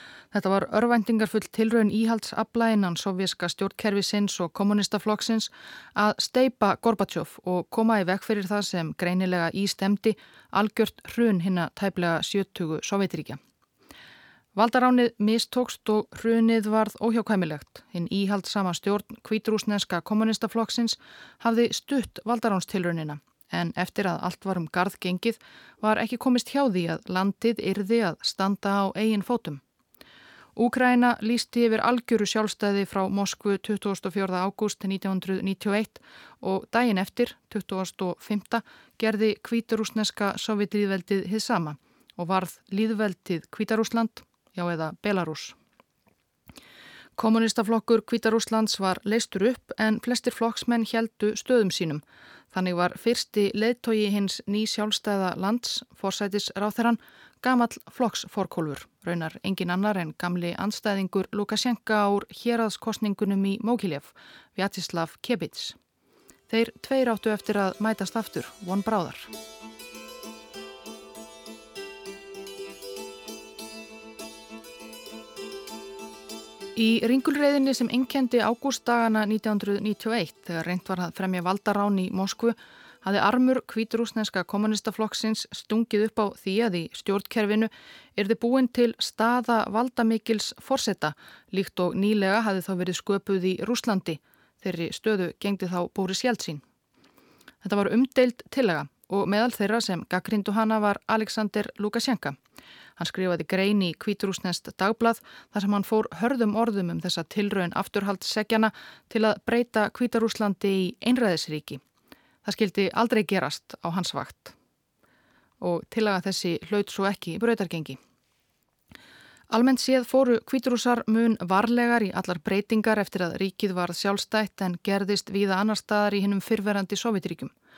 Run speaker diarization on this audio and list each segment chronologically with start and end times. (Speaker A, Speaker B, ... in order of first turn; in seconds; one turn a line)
Speaker A: 0.3-13.4
Speaker A: 14.6-29.6
Speaker A: 30.6-45.6
Speaker A: 47.2-65.8
Speaker A: 66.5-69.3
Speaker A: 76.8-96.6
Speaker A: 97.6-102.4
Speaker A: 103.0-111.8
Speaker A: 112.4-114.5
Speaker A: 115.6-118.0
Speaker A: 119.5-127.5